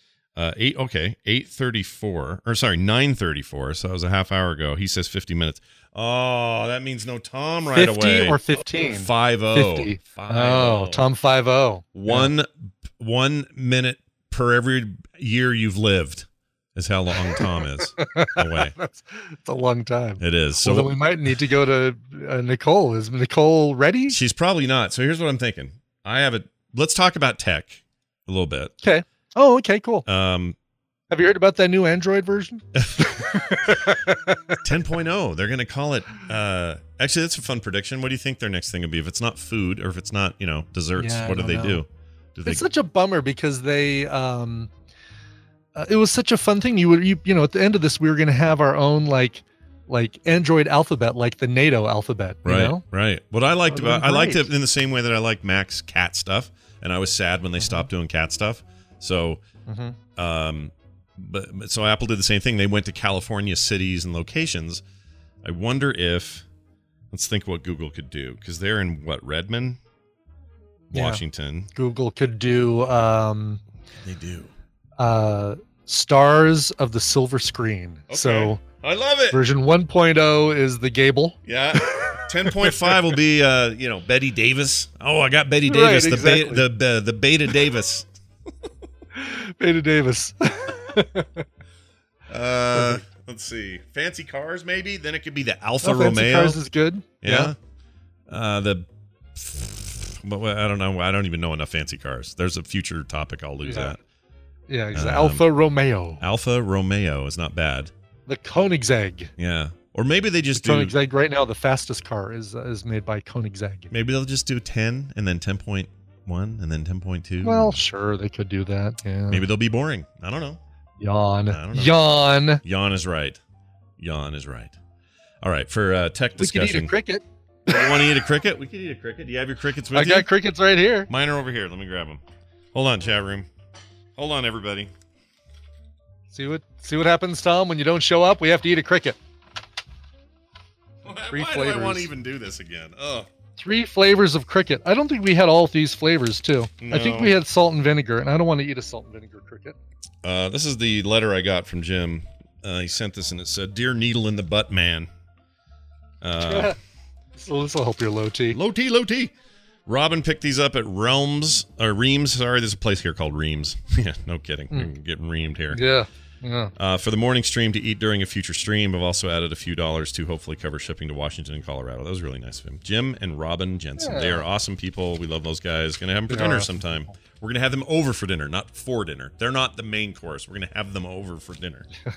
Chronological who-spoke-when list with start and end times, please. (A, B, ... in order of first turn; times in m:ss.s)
0:00.4-0:11.0 A
0:07.7-0:12.3 B
0:11.9-0:18.8 A
0:17.3-0:24.2 B
0:20.2-0:20.9 A
0:24.1-0:28.7 A
0:28.8-0:30.1 B
0:30.1-0:30.6 A
0:31.1-0:34.6 B
0:32.8-0:33.1 A
0:34.6-0:42.6 A
0:41.0-0:41.8 B
0:42.5-0:44.7 B
0:45.8-0:52.8 B
0:52.4-0:59.4 A
0:53.7-0:54.5 B
0:57.6-0:57.9 B
0:59.7-1:00.0 B
1:00.2-1:04.8 A
1:05.4-1:06.4 A
1:07.1-1:09.8 A
1:10.9-1:11.7 A
1:10.9-1:11.2 B
1:11.8-1:13.6 B
1:14.0-1:14.5 A
1:15.0-1:18.6 B
1:18.1-1:19.4 A
1:19.3-1:23.0 B
1:21.5-1:28.1 A
1:25.7-1:26.6 B
1:29.2-1:31.4 B
1:32.3-1:36.6 A
1:32.8-1:33.0 B
1:35.8-1:37.5 B
1:37.2-1:37.6 A
1:38.3-1:44.0 A
1:43.6-1:44.0 B
1:44.7-1:46.2 B
1:44.9-1:45.4 A
1:46.2-1:47.9 A
1:48.3-1:49.3 B
1:49.4-1:50.9 A
1:50.5-1:53.9 B
1:53.9-1:57.8 A
1:57.4-1:59.4 B
1:59.3-2:00.6 A
2:01.0-2:02.6 B
2:01.5-2:02.0 A
2:02.6-2:03.4 A
2:04.0-2:04.8 A
2:05.4-2:06.9 A
2:06.4-2:07.7 B
2:07.7-2:10.3 A
2:09.9-2:11.1 B
2:11.1-2:12.2 A
2:12.7-2:13.5 A
2:14.2-2:14.9 A
2:16.3-2:19.2 B
2:21.0-2:23.3 A
2:21.3-2:22.1 B
2:23.6-2:29.8 B
2:26.8-2:27.3 A
2:30.2-2:35.1 A
2:36.2-2:36.8 A
2:36.4-2:36.8 B
2:37.4-2:38.6 B
2:38.5-2:39.3 A
2:39.9-2:45.8 A
2:45.7-2:46.7 B
2:46.8-3:01.9 A
2:54.0-2:54.4 B
2:56.3-2:56.8 B